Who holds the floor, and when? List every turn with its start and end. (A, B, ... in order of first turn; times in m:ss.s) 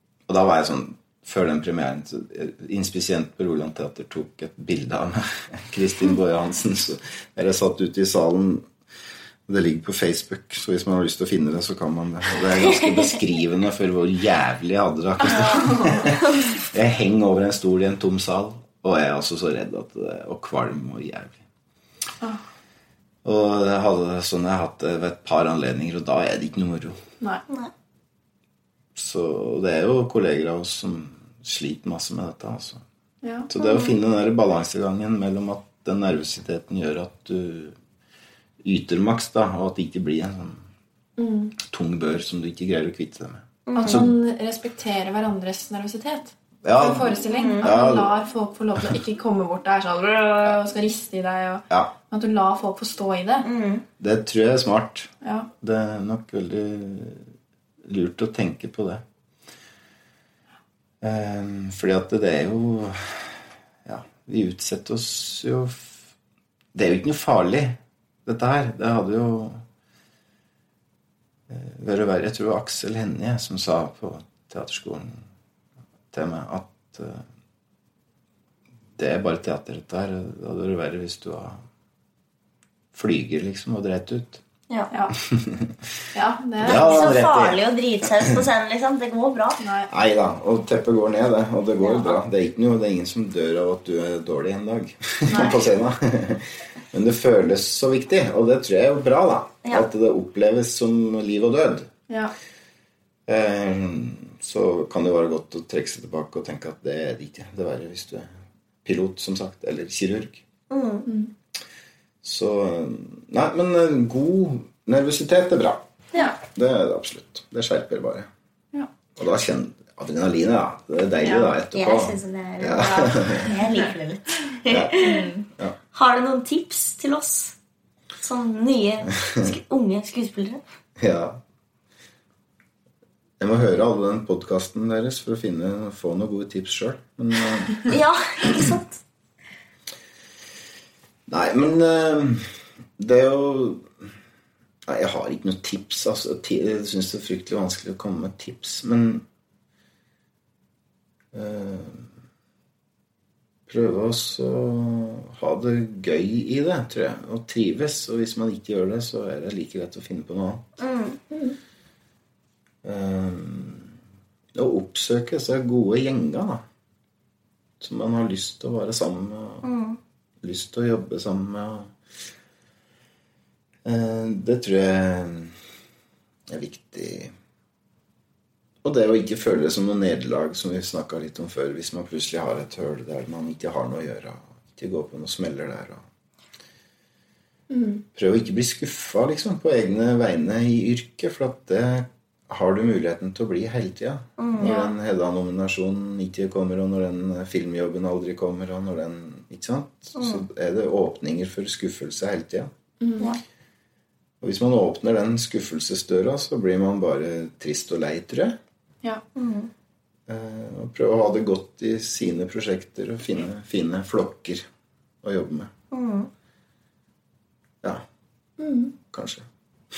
0:00.3-0:08.7 A
0:09.5-0:21.4 A
0:15.2-0:16.1 B
0:23.2-0:27.0 A
0:28.9-0:32.8 A
0:33.2-0:33.5 B
0:33.5-0:37.8 A
0:33.6-0:33.9 C
0:38.6-0:40.6 A
0:41.2-0:41.6 B
0:41.6-0:44.1 A
0:43.7-0:44.0 C
0:43.7-0:53.5 B
0:46.6-0:48.1 A
0:47.2-0:47.7 C
0:53.4-0:53.8 C
0:54.0-0:55.1 A
0:55.2-0:55.5 B
0:55.6-0:57.3 A
0:57.8-0:59.0 A
1:01.0-1:06.0 A
1:06.7-1:09.6 A
1:11.5-1:15.2 A
1:16.1-1:17.2 A
1:19.0-1:21.6 A
1:22.9-1:24.4 A
1:25.2-1:25.8 A
1:26.1-1:27.2 B
1:26.6-1:28.4 A
1:26.6-1:29.6 C
1:29.6-1:29.9 B
1:29.9-1:41.9 A
1:31.8-1:32.2 C
1:35.3-1:35.7 B
1:43.3-1:48.3 A
1:48.8-1:50.4 A
1:50.7-1:51.1 C
1:51.0-1:51.3 B
1:52.2-1:55.8 A
1:56.4-1:58.3 A
1:59.2-2:03.5 A
2:01.2-2:01.5 B
2:01.7-2:05.3 C
2:04.6-2:05.0 A
2:05.0-2:05.4 B
2:05.9-2:07.6 C
2:08.2-2:10.6 C
2:11.0-2:11.4 A
2:13.4-2:18.7 A
2:17.8-2:19.0 C
2:21.3-2:24.0 A
2:24.8-2:29.2 A
2:31.3-2:32.1 A
2:33.7-2:40.6 A
2:40.8-2:41.2 C
2:41.3-2:41.6 B
2:42.8-2:43.9 A
2:44.5-2:46.6 A
2:47.8-2:49.6 A
2:49.6-2:50.0 C
2:50.4-2:51.9 A
2:53.8-2:55.5 A
2:56.5-2:57.3 A
2:58.8-3:06.0 A
3:07.7-3:08.0 B
3:08.1-3:22.7 A
3:14.4-3:14.7 C
3:14.6-3:14.9 B
3:20.2-3:20.4 C
3:23.0-3:23.3 B
3:24.4-3:28.6 A
3:29.3-3:29.7 C
3:30.3-3:34.6 A
3:35.2-3:35.7 A
3:35.9-3:36.3 C
3:38.6-3:39.0 B
3:39.1-3:39.4 A